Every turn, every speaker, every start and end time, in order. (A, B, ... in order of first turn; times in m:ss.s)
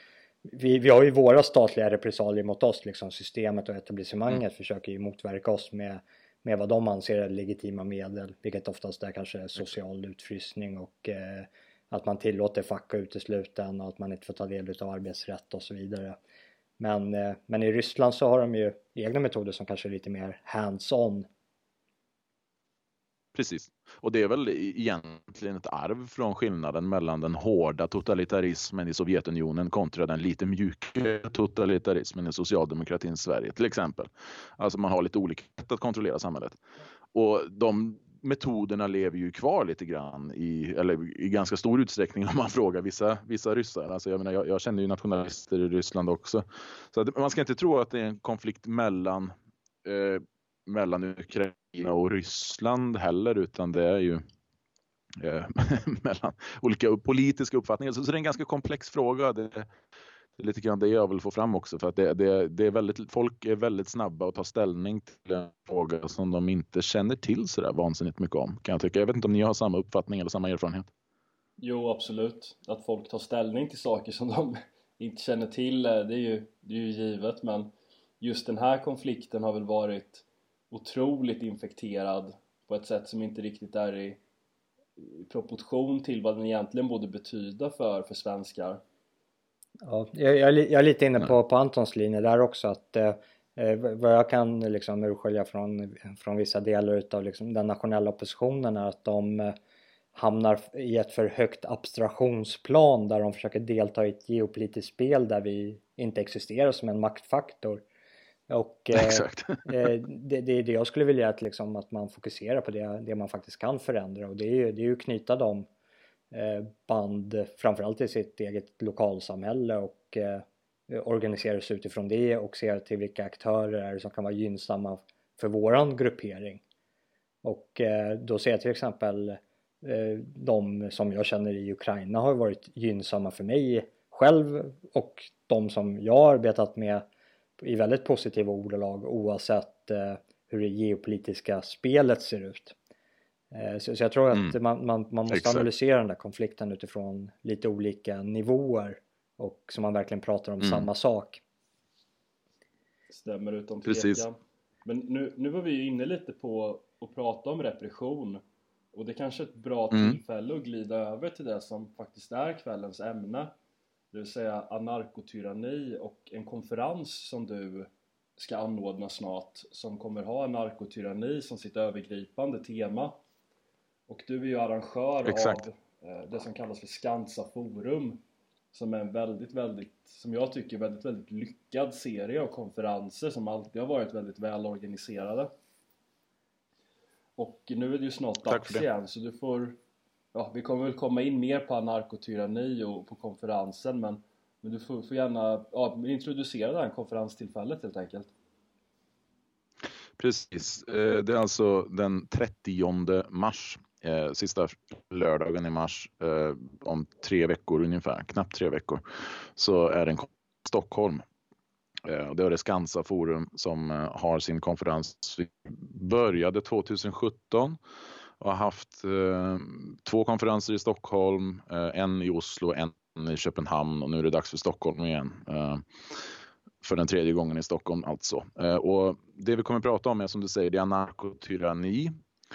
0:00.4-0:16.2 A
0:16.8-0:21.3 A
0:23.3-0:36.6 B
0:37.1-0:49.3 B
0:49.8-0:54.2 B
0:55.2-0:59.7 B
1:00.4-1:10.9 B
1:11.6-1:17.7 C
1:18.2-1:24.2 C
1:25.0-1:28.8 C
1:29.8-1:39.5 A
1:40.1-1:47.8 A
1:48.5-1:55.7 A
1:48.9-1:49.7 B
1:56.3-2:06.6 A
2:07.4-2:17.0 A
2:17.6-2:22.8 A
2:23.5-2:31.4 A
2:25.3-2:25.6 B
2:30.6-2:30.9 B
2:33.1-2:38.4 C
2:33.8-2:34.2 B
2:38.9-2:43.5 C
2:39.9-2:40.2 B
2:44.1-2:53.1 C
2:54.1-2:58.2 C
2:55.2-2:55.6 B
2:58.7-3:05.5 C
3:07.4-3:09.8 C
3:08.4-3:08.8 B
3:10.3-3:18.3 C
3:20.2-3:29.0 B
3:29.6-3:31.2 B
3:32.0-3:37.8 B
3:38.4-3:45.8 B
3:46.8-3:52.1 B